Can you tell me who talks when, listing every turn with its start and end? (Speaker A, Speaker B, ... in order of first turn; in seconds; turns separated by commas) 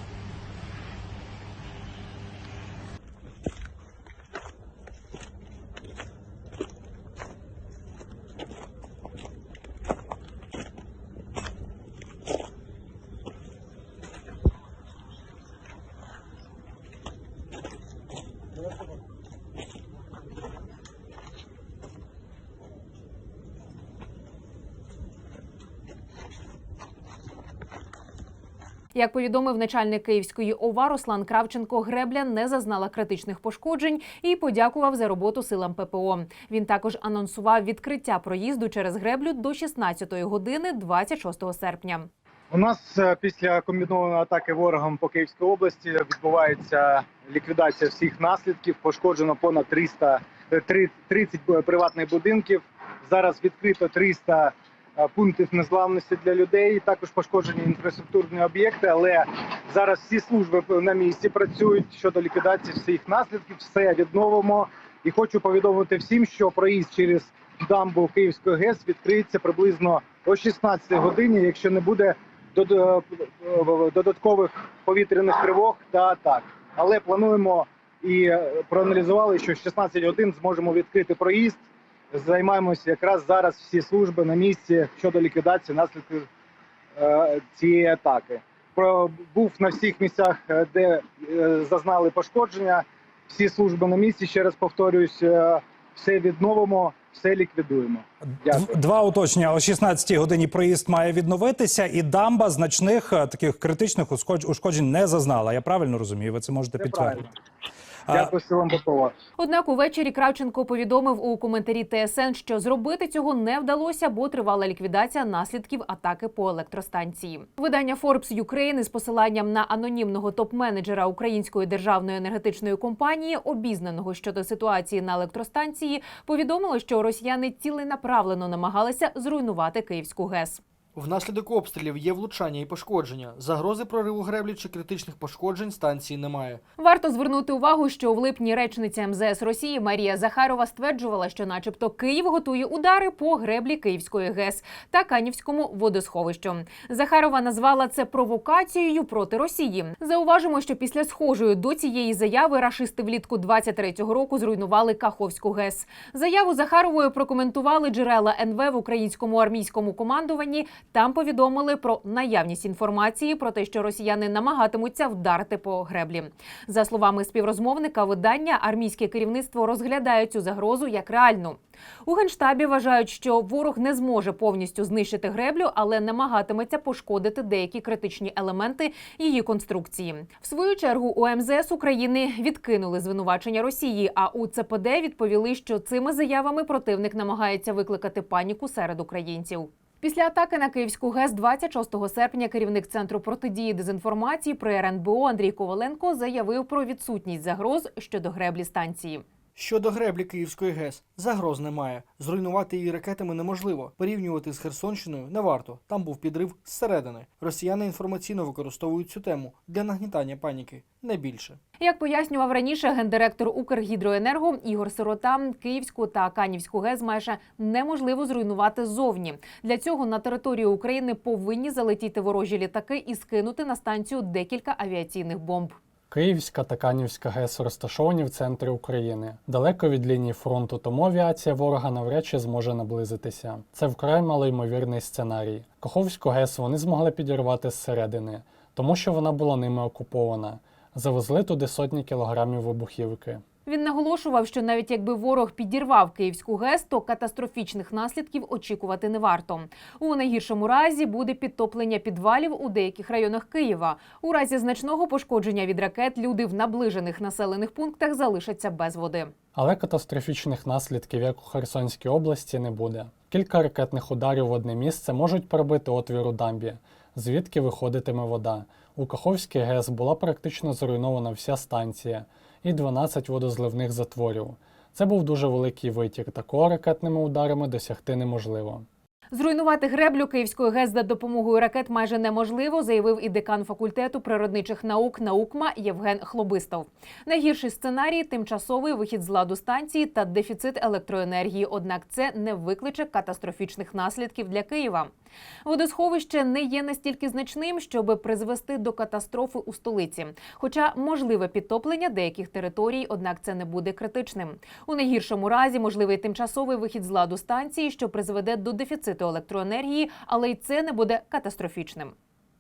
Speaker A: 28.9-42.1, Speaker B: 42.5-81.6, Speaker B: 82.1-86.3, Speaker B: 87.0-98.8, Speaker C: 98.5-107.3, Speaker B: 106.8-107.3, Speaker B: 108.1-109.1, Speaker A: 109.4-130.6, Speaker D: 130.9-136.6, Speaker A: 136.8-199.2, Speaker D: 199.6-211.6, Speaker A: 211.8-225.8, Speaker E: 226.1-243.4, Speaker A: 243.7-259.3, Speaker E: 259.6-278.9, Speaker A: 279.3-295.1, Speaker A: 295.6-312.1